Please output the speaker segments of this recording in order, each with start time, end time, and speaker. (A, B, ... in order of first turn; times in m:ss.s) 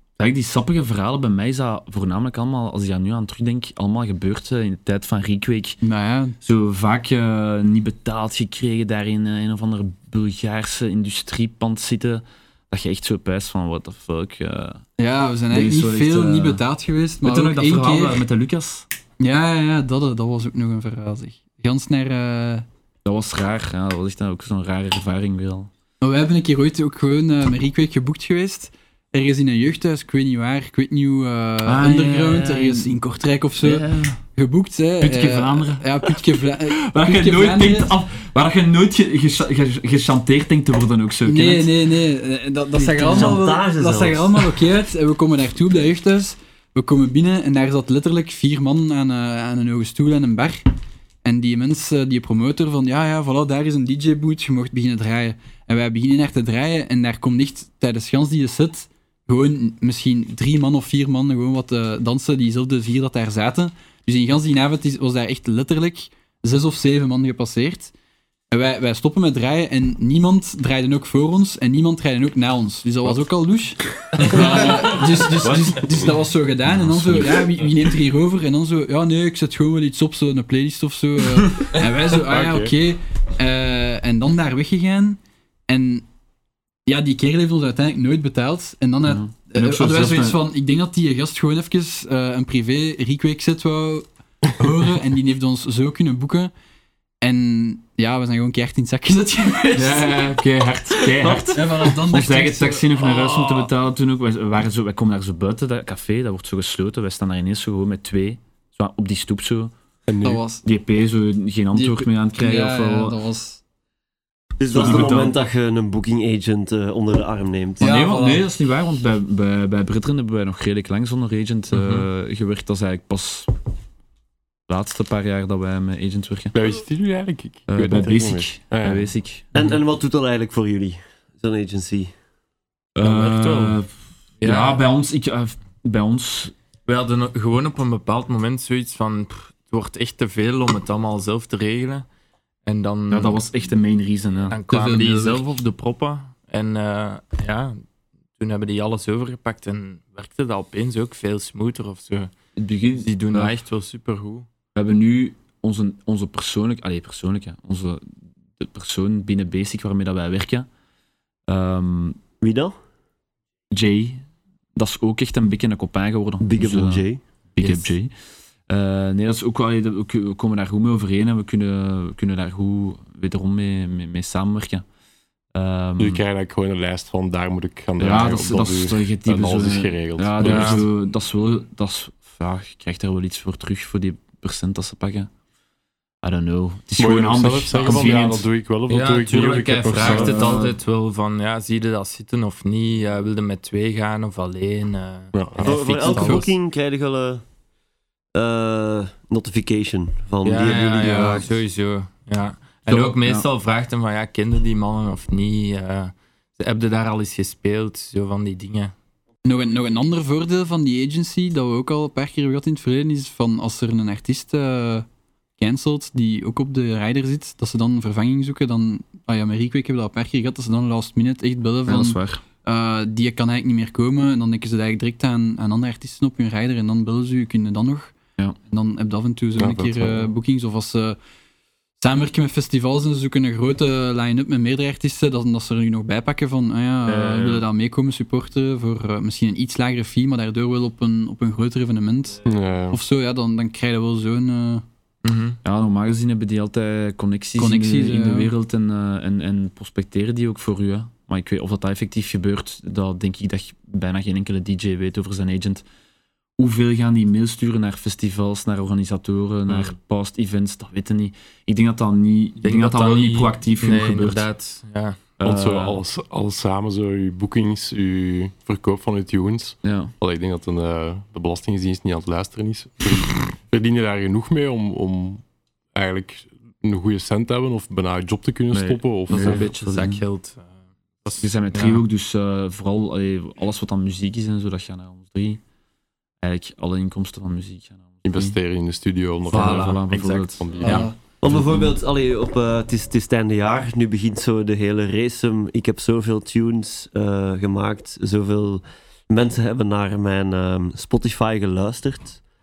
0:00.2-0:05.8 A
0:05.8-0:06.4 B
0:06.4-0:14.8 A
0:15.0-0:18.2 B
0:15.5-0:16.6 A
0:17.2-0:18.9 A
0:19.2-0:22.7 B
0:23.0-0:25.7 A
0:26.0-0:37.9 B
0:31.6-0:32.9 A
0:33.6-0:34.2 A
0:35.0-0:36.2 A
0:36.7-0:41.7 A
0:41.2-0:50.6 B
0:42.8-0:44.5 C
0:51.2-1:07.9 B
1:08.5-1:26.0 B
1:16.7-1:17.4 A
1:22.2-1:22.7 D
1:26.9-1:36.5 B
1:29.0-1:30.4 A
1:37.2-1:40.2 B
1:39.8-1:41.6 E
1:40.0-1:49.7 A
1:41.5-1:43.0 B
1:50.1-1:50.4 D
1:50.2-1:50.6 B
1:50.6-1:53.2 A
1:51.7-1:53.6 B
1:54.6-1:57.8 C
1:54.7-1:55.4 A
1:57.8-1:58.5 B
1:57.8-2:03.5 A
2:01.7-2:02.1 E
2:04.7-2:06.5 A
2:06.5-2:09.1 D
2:07.7-2:09.7 A
2:09.6-2:12.1 C
2:13.0-2:16.5 A
2:13.0-2:13.8 E
2:14.4-2:14.8 E
2:16.9-2:22.1 E
2:22.6-2:23.4 E
2:23.1-2:24.6 A
2:24.5-2:27.8 E
2:24.7-2:25.4 B
2:28.4-2:34.5 E
2:32.6-2:33.6 A
2:34.8-2:40.7 A
2:41.5-2:42.2 A
2:42.4-2:42.8 C
2:43.7-2:44.2 A
2:44.8-2:48.1 A
2:46.4-2:47.8 C
2:48.7-2:54.8 A
2:55.5-2:56.2 A
2:56.0-3:00.9 D
2:58.0-3:05.3 A
3:00.4-3:00.8 E
3:06.2-3:08.7 A
3:07.0-3:10.6 D
3:07.8-3:08.2 E
3:08.9-3:16.5 E
3:09.9-3:10.8 A
3:15.3-3:16.5 D
3:15.6-3:17.4 C
3:18.4-3:21.5 C
3:20.4-3:28.9 E
3:22.9-3:23.5 A
3:29.4-3:35.1 B
3:35.6-3:48.2 B
3:41.9-3:42.4 A
3:48.7-3:51.2 B
3:49.6-3:50.3 D
3:52.0-4:02.4 B
3:57.1-3:57.6 A
4:02.4-4:03.0 D
4:02.9-4:04.8 B
4:05.2-4:05.6 E
4:05.6-4:15.8 A
4:07.6-4:08.5 B
4:16.6-4:24.5 A
4:22.6-4:25.2 E
4:25.4-4:26.0 A
4:25.4-4:39.7 D
4:29.8-4:30.2 A
4:38.7-4:40.2 A
4:39.3-4:42.0 E
4:41.4-4:45.6 A
4:46.4-4:48.6 A
4:48.2-4:51.1 D
4:49.5-4:51.9 A
4:49.5-4:51.1 E
4:50.8-4:51.1 B
4:51.4-5:02.4 C